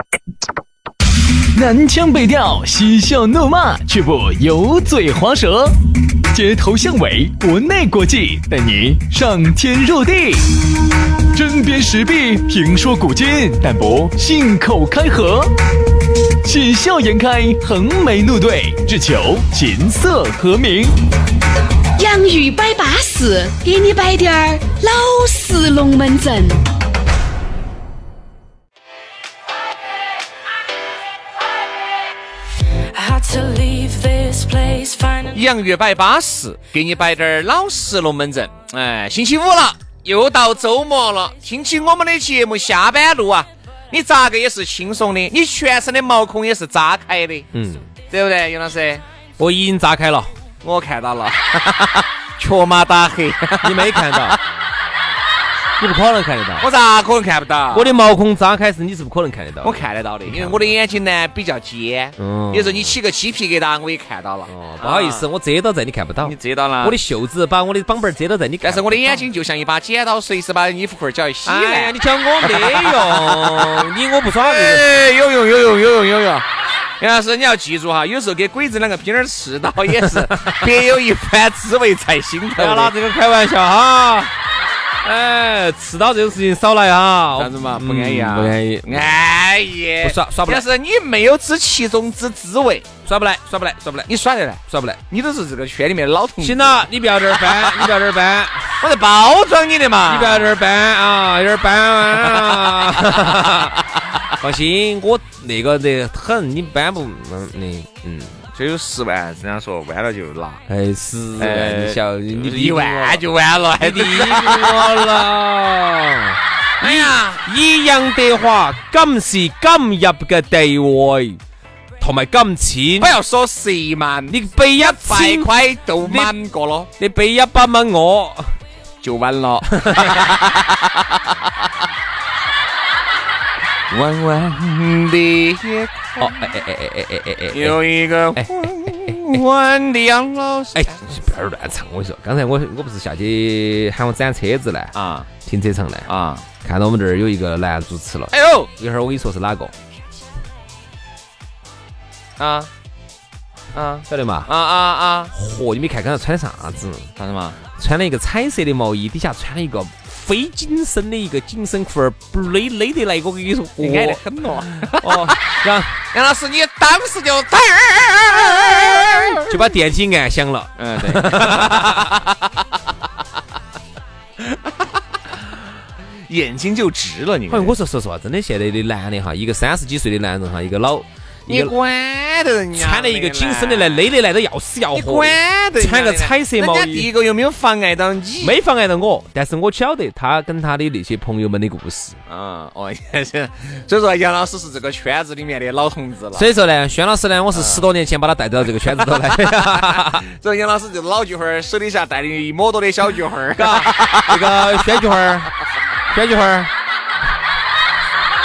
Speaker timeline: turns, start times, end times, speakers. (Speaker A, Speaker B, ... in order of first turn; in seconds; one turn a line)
Speaker A: 1.5-5.8
Speaker A: 6.3-10.6
Speaker A: 11.3-15.6
Speaker A: 16.4-20.9
Speaker B: 22.0-26.6
Speaker C: 32.9-35.4
Speaker D: 35.3-47.5
Speaker E: 47.5-47.9
Speaker D: 48.1-49.0
Speaker E: 49.4-50.3
Speaker D: 50.6-54.4
Speaker E: 53.6-54.4
Speaker E: 55.8-56.7
Speaker D: 56.6-58.0
Speaker E: 57.7-60.7
Speaker D: 59.6-65.2
Speaker E: 62.2-63.0
Speaker E: 64.5-69.2
Speaker D: 66.2-67.0
Speaker D: 68.6-73.8
Speaker E: 71.4-74.8
Speaker D: 74.4-76.5
Speaker D: 77.0-82.9
Speaker E: 80.0-80.6
Speaker E: 82.5-84.3
Speaker E: 85.0-89.1
Speaker D: 87.3-92.9
Speaker E: 90.0-90.7
Speaker E: 93.0-94.1
Speaker D: 94.1-97.9
Speaker E: 94.7-95.0
Speaker E: 96.4-98.7
Speaker D: 98.8-100.5
Speaker E: 100.1-108.4
Speaker D: 102.2-104.2
Speaker D: 108.4-110.6
Speaker E: 110.7-113.2
Speaker D: 111.4-115.2
Speaker E: 113.8-121.4
Speaker D: 116.8-117.4
Speaker E: 122.0-123.1
Speaker D: 123.0-126.9
Speaker E: 124.3-126.3
Speaker E: 127.0-128.5
Speaker D: 129.0-131.7
Speaker E: 129.7-130.3
Speaker D: 133.9-136.5
Speaker E: 136.2-139.3
Speaker D: 137.5-141.0
Speaker E: 140.7-146.1
Speaker D: 144.9-145.3
Speaker D: 146.1-146.4
Speaker E: 146.6-149.7
Speaker D: 148.3-148.7
Speaker D: 152.4-152.7
Speaker D: 153.7-155.3
Speaker E: 154.1-154.5
Speaker E: 155.3-157.1
Speaker D: 157.2-157.6
Speaker E: 157.8-164.2
Speaker D: 163.8-165.4
Speaker E: 164.9-166.0
Speaker D: 166.1-169.7
Speaker E: 169.4-172.1
Speaker D: 170.8-172.9
Speaker D: 174.4-175.5
Speaker D: 176.3-177.8
Speaker E: 177.5-181.7
Speaker D: 181.5-184.0
Speaker E: 182.7-187.1
Speaker D: 184.9-188.6
Speaker E: 188.4-192.2
Speaker D: 192.3-196.5
Speaker E: 196.3-200.2
Speaker D: 197.5-197.8
Speaker D: 198.8-205.4
Speaker E: 203.5-205.5
Speaker E: 206.1-206.7